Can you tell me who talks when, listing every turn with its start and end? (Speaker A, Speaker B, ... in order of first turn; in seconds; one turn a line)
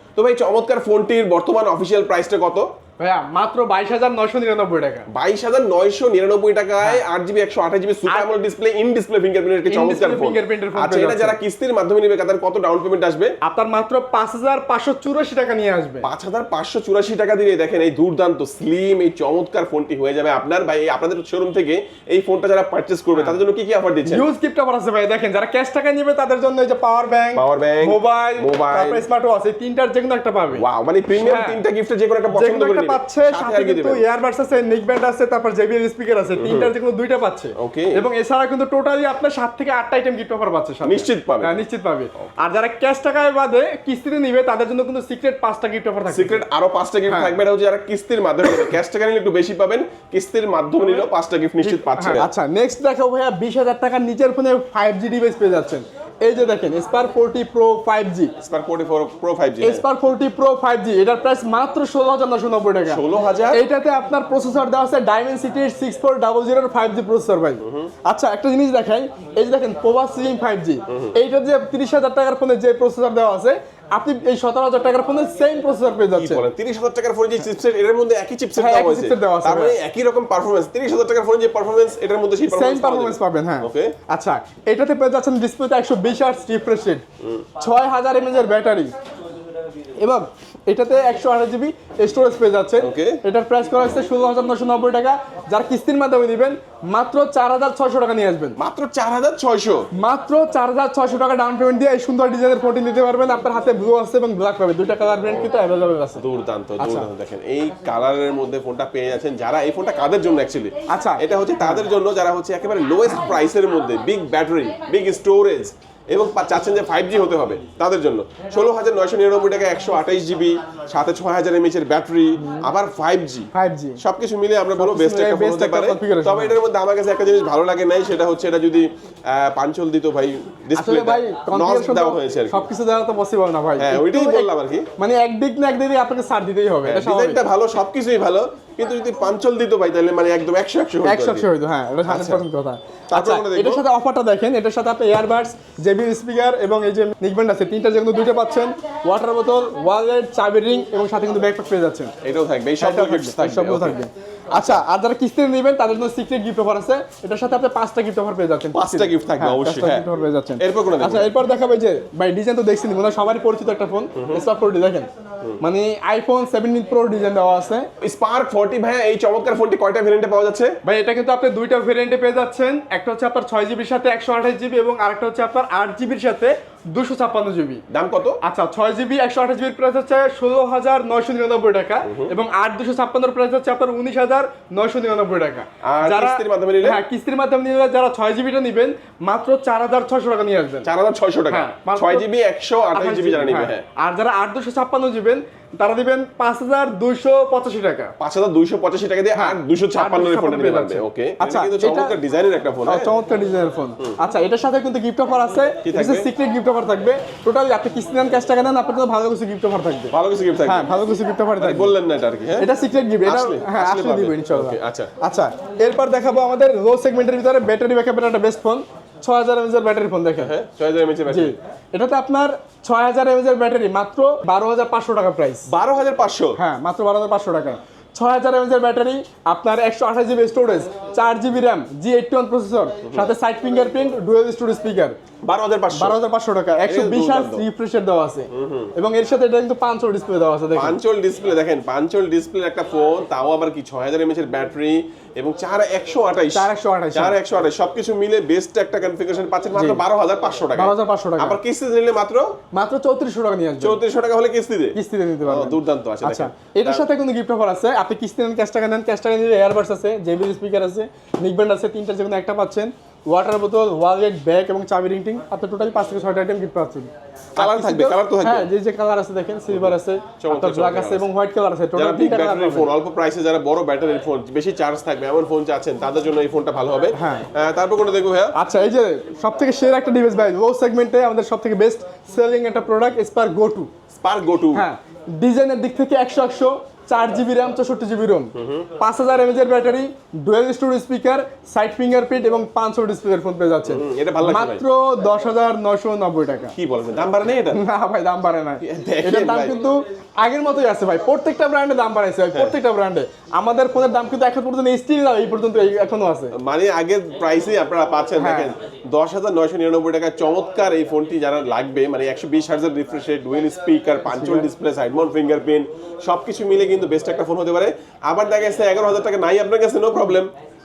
Speaker A: 0.1-2.7
Speaker B: 3.0-5.1
Speaker A: 5.1-13.3
Speaker B: 9.7-11.4
Speaker B: 13.4-16.1
Speaker A: 16.0-24.3
Speaker B: 23.1-23.4
Speaker B: 24.1-31.6
Speaker A: 27.3-29.0
Speaker A: 30.5-34.0
Speaker B: 32.3-46.4
Speaker A: 36.4-36.7
Speaker A: 37.6-38.0
Speaker A: 40.8-41.6
Speaker A: 46.1-52.3
Speaker B: 47.1-47.4
Speaker B: 51.6-58.3
Speaker A: 58.4-59.8
Speaker B: 59.6-76.5
Speaker A: 62.9-63.6
Speaker A: 67.6-67.9
Speaker A: 70.9-71.1
Speaker A: 76.1-84.0
Speaker B: 78.5-79.8
Speaker B: 82.5-87.0
Speaker B: 87.6-88.9
Speaker B: 90.0-98.6
Speaker A: 92.8-93.2
Speaker A: 98.6-99.9
Speaker B: 99.9-106.2
Speaker A: 106.2-132.7
Speaker B: 106.8-107.1
Speaker B: 110.9-111.8
Speaker B: 123.5-124.0
Speaker B: 124.7-126.5
Speaker B: 130.7-137.4
Speaker A: 133.8-134.9
Speaker A: 136.8-141.5
Speaker B: 141.0-152.1
Speaker A: 142.0-142.4
Speaker A: 143.1-143.8
Speaker A: 152.2-154.0
Speaker B: 152.8-165.1
Speaker A: 154.5-154.8
Speaker A: 158.7-160.1
Speaker A: 160.6-161.3
Speaker A: 164.1-164.4
Speaker B: 165.6-167.9
Speaker A: 168.0-170.8
Speaker B: 170.8-177.8
Speaker A: 177.9-178.4
Speaker B: 178.4-190.9
Speaker A: 182.0-182.3
Speaker A: 185.8-187.0
Speaker A: 190.8-193.8
Speaker B: 191.5-192.2
Speaker B: 192.9-198.1
Speaker A: 198.2-203.1
Speaker B: 199.3-202.1
Speaker B: 202.8-210.1
Speaker A: 205.8-206.3
Speaker A: 210.1-210.9
Speaker B: 210.6-211.9
Speaker A: 211.6-212.7
Speaker B: 212.6-220.5
Speaker A: 213.2-215.1
Speaker A: 220.4-221.5
Speaker B: 221.3-225.7
Speaker A: 225.7-226.6
Speaker B: 226.6-235.2
Speaker A: 233.0-233.3
Speaker A: 235.4-236.2
Speaker B: 235.9-241.0
Speaker A: 236.8-237.6
Speaker A: 238.5-238.9
Speaker A: 240.7-252.5
Speaker B: 246.5-247.3
Speaker B: 249.7-250.0
Speaker B: 250.7-251.6
Speaker B: 252.7-254.0
Speaker A: 253.8-257.1
Speaker B: 254.9-272.9
Speaker A: 267.6-268.7
Speaker A: 269.7-271.2
Speaker A: 271.9-278.5
Speaker B: 277.1-277.5
Speaker B: 278.5-283.9
Speaker A: 284.1-284.8
Speaker B: 284.7-296.7
Speaker A: 288.5-288.9
Speaker A: 293.8-294.8
Speaker A: 296.7-297.8
Speaker B: 297.7-306.5
Speaker A: 298.8-299.7
Speaker A: 306.5-320.5
Speaker B: 308.4-308.7
Speaker B: 314.3-314.7